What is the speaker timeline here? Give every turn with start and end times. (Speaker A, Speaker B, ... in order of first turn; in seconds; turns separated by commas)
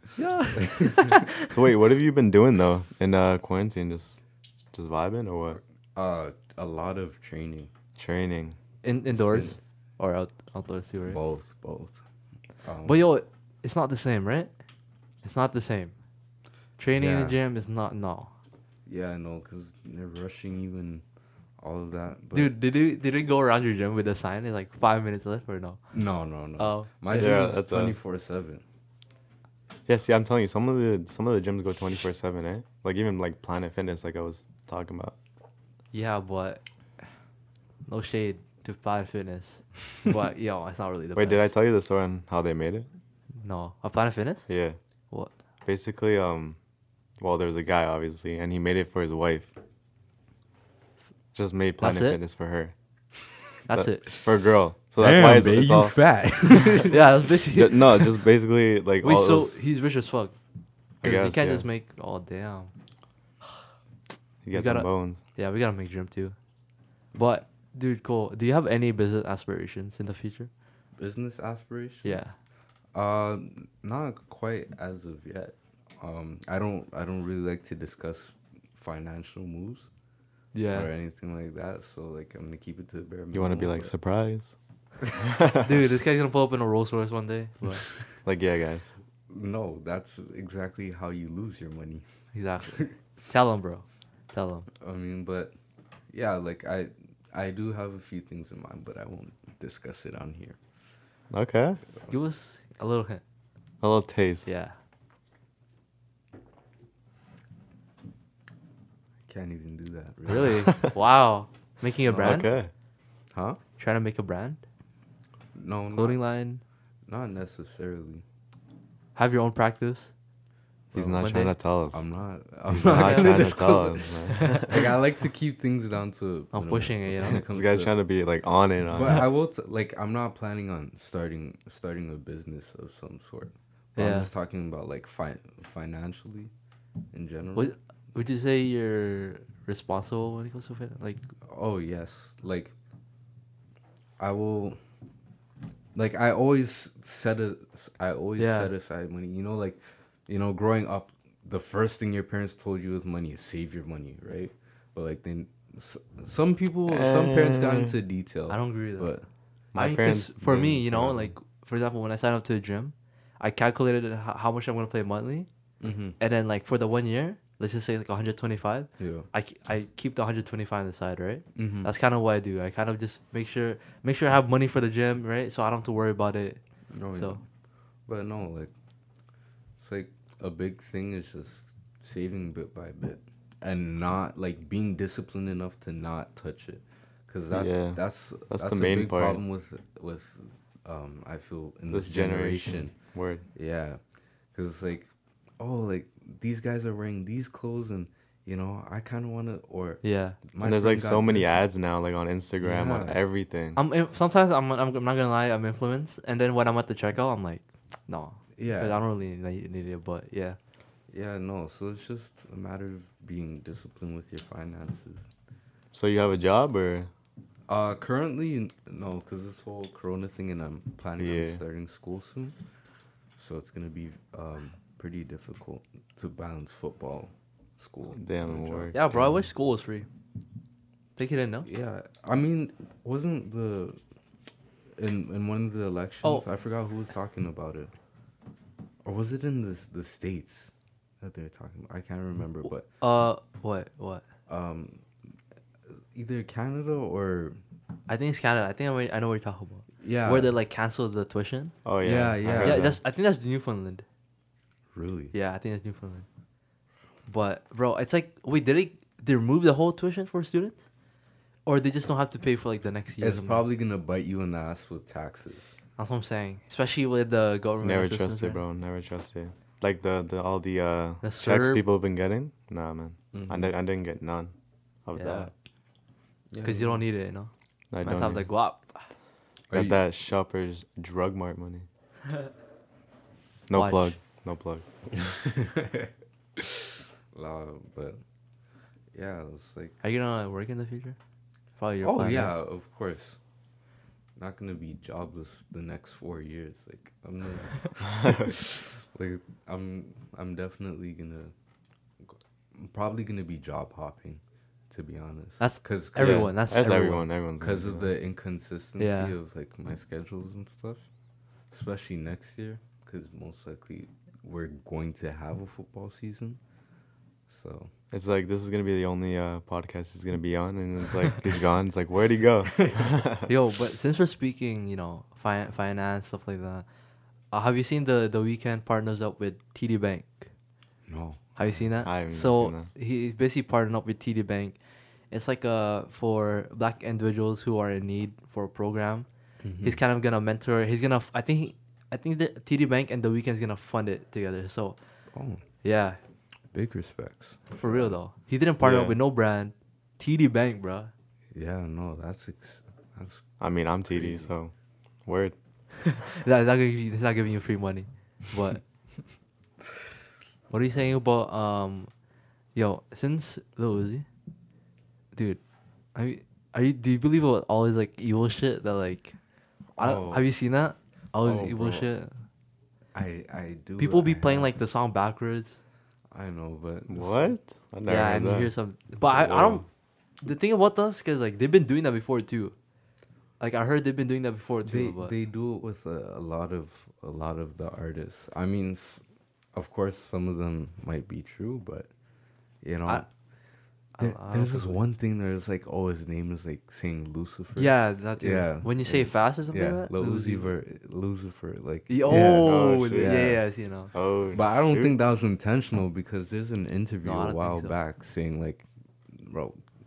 Speaker A: 0.2-1.4, Speaker B: 0.5-1.2, Speaker C: 1.4-4.2, Speaker C: 4.7-5.6, Speaker B: 5.9-7.7, Speaker C: 8.0-8.6, Speaker A: 8.8-11.2, Speaker B: 9.1-9.6, Speaker B: 11.1-12.0, Speaker B: 12.6-13.1, Speaker A: 12.8-14.5, Speaker A: 15.2-15.9, Speaker A: 16.8-18.3, Speaker B: 16.9-17.4, Speaker B: 18.9-21.0, Speaker B: 21.6-22.5, Speaker A: 22.3-25.8, Speaker B: 25.9-28.6, Speaker A: 26.6-27.4, Speaker C: 27.1-27.9, Speaker C: 29.9-35.1, Speaker A: 35.9-36.6, Speaker A: 37.9-41.5, Speaker C: 41.1-42.9, Speaker A: 43.4-44.5, Speaker C: 44.5-44.8, Speaker C: 45.6-46.6, Speaker C: 47.2-49.5, Speaker C: 51.3-52.7, Speaker A: 51.8-52.2, Speaker A: 53.7-54.2, Speaker C: 54.1-56.0, Speaker B: 55.0-57.1, Speaker A: 56.8-58.1, Speaker C: 57.5-59.6, Speaker A: 59.0-60.3, Speaker A: 61.0-62.7, Speaker C: 61.0-61.7, Speaker C: 64.4-65.2, Speaker A: 64.5-66.3, Speaker A: 67.1-70.5, Speaker B: 71.0-72.3, Speaker A: 72.0-72.3, Speaker B: 72.9-79.9, Speaker A: 80.5-80.9, Speaker B: 80.7-83.9, Speaker C: 83.3-84.5, Speaker C: 85.2-85.7, Speaker A: 85.6-87.9, Speaker C: 88.2-88.9, Speaker B: 89.3-92.0, Speaker A: 92.3-94.7, Speaker B: 94.8-95.5, Speaker B: 96.1-100.6, Speaker C: 101.3-101.8, Speaker A: 102.1-103.2, Speaker C: 103.8-104.5, Speaker A: 104.5-104.7, Speaker B: 109.3-110.7, Speaker A: 110.3-112.5, Speaker B: 112.1-112.4, Speaker C: 112.2-112.7, Speaker B: 113.3-113.6, Speaker A: 113.8-114.6, Speaker B: 115.5-116.2, Speaker A: 115.9-116.6, Speaker B: 117.1-118.2, Speaker A: 119.2-120.1, Speaker B: 120.9-121.2, Speaker C: 120.9-122.0, Speaker A: 121.1-121.5, Speaker B: 121.9-127.9, Speaker C: 122.7-124.7, Speaker A: 122.8-124.8, Speaker A: 126.5-127.5, Speaker C: 127.5-129.2, Speaker B: 128.9-136.5, Speaker A: 133.9-134.3, Speaker B: 137.1-137.7, Speaker A: 137.5-141.3, Speaker B: 141.4-142.7, Speaker B: 144.2-144.8, Speaker B: 145.9-159.2, Speaker A: 148.4-148.7, Speaker C: 156.9-157.9, Speaker A: 158.5-159.1, Speaker C: 159.7-161.3, Speaker A: 159.8-165.5, Speaker B: 165.8-166.2, Speaker A: 166.2-176.6, Speaker B: 169.0-169.3, Speaker B: 171.6-171.9, Speaker B: 176.9-177.4, Speaker A: 177.1-177.4, Speaker B: 178.1-178.7, Speaker B: 179.8-192.9, Speaker C: 187.5-189.4, Speaker C: 191.9-193.4, Speaker B: 193.5-194.0, Speaker B: 194.5-201.6, Speaker A: 200.0-200.4, Speaker C: 200.6-203.8, Speaker B: 202.6-203.2, Speaker A: 203.8-210.6, Speaker B: 208.6-209.0, Speaker B: 211.1-215.3, Speaker C: 215.9-217.1, Speaker B: 217.7-222.6, Speaker C: 221.2-221.6, Speaker B: 223.3-229.5, Speaker C: 228.1-229.0, Speaker A: 228.9-230.1, Speaker A: 231.2-231.7, Speaker B: 231.7-234.0, Speaker B: 235.0-237.9, Speaker B: 239.0-240.7, Speaker B: 241.2-242.8, Speaker A: 243.0-244.2, Speaker B: 244.5-245.0, Speaker B: 246.1-247.6, Speaker A: 248.1-251.8, Speaker B: 250.0-250.5, Speaker C: 251.8-253.0, Speaker B: 252.0-253.0, Speaker A: 252.5-254.0, Speaker B: 254.9-255.3, Speaker A: 255.3-256.2, Speaker A: 257.3-260.8, Speaker A: 261.6-263.6, Speaker B: 263.2-265.7, Speaker A: 266.0-268.6, Speaker C: 267.8-274.5, Speaker A: 271.2-271.8, Speaker B: 273.3-273.7, Speaker C: 275.0-275.5, Speaker A: 275.1-275.5, Speaker B: 276.5-277.0, Speaker A: 276.6-277.5, Speaker C: 277.9-278.5, Speaker A: 278.0-279.0, Speaker B: 279.7-280.0, Speaker C: 279.7-281.9, Speaker C: 283.7-284.8, Speaker A: 283.7-284.1, Speaker B: 285.1-288.2, Speaker B: 289.1-290.0, Speaker A: 290.0-291.2, Speaker A: 291.8-292.5, Speaker B: 292.0-293.4, Speaker B: 294.4-301.5, Speaker C: 298.0-298.5, Speaker B: 302.2-306.6, Speaker A: 305.6-307.3, Speaker C: 306.2-308.1, Speaker B: 307.6-311.1, Speaker A: 309.0-309.3, Speaker B: 311.7-316.6, Speaker B: 317.5-317.9, Speaker C: 318.1-323.4, Speaker A: 323.4-326.9, Speaker A: 327.5-330.5, Speaker B: 331.1-331.8, Speaker A: 331.6-334.7, Speaker C: 332.0-332.9, Speaker A: 335.3-339.3, Speaker B: 339.6-340.0, Speaker A: 339.8-345.0, Speaker B: 345.3-345.6, Speaker A: 345.8-346.2, Speaker B: 346.7-348.2, Speaker A: 347.8-351.1, Speaker C: 348.8-349.2, Speaker B: 351.5-353.5, Speaker C: 353.6-354.7, Speaker B: 354.1-354.5, Speaker C: 355.2-355.5, Speaker A: 356.0-358.8, Speaker A: 360.7-362.1, Speaker A: 362.7-364.2, Speaker A: 365.3-365.6, Speaker A: 366.1-369.4, Speaker B: 370.0-370.4, Speaker A: 370.0-372.3, Speaker B: 371.4-372.1, Speaker B: 373.1-374.7, Speaker A: 374.0-375.8, Speaker B: 376.3-377.5, Speaker C: 377.1-378.7, Speaker A: 378.1-379.8, Speaker C: 379.3-379.8, Speaker A: 380.4-382.7, Speaker A: 383.6-385.3, Speaker B: 384.8-392.1, Speaker B: 392.8-393.2, Speaker A: 394.1-395.0, Speaker B: 394.2-403.6, Speaker A: 397.8-400.7, Speaker A: 402.1-404.1, Speaker C: 402.3-403.6, Speaker C: 404.1-405.1, Speaker B: 404.5-409.8, Speaker A: 407.2-407.9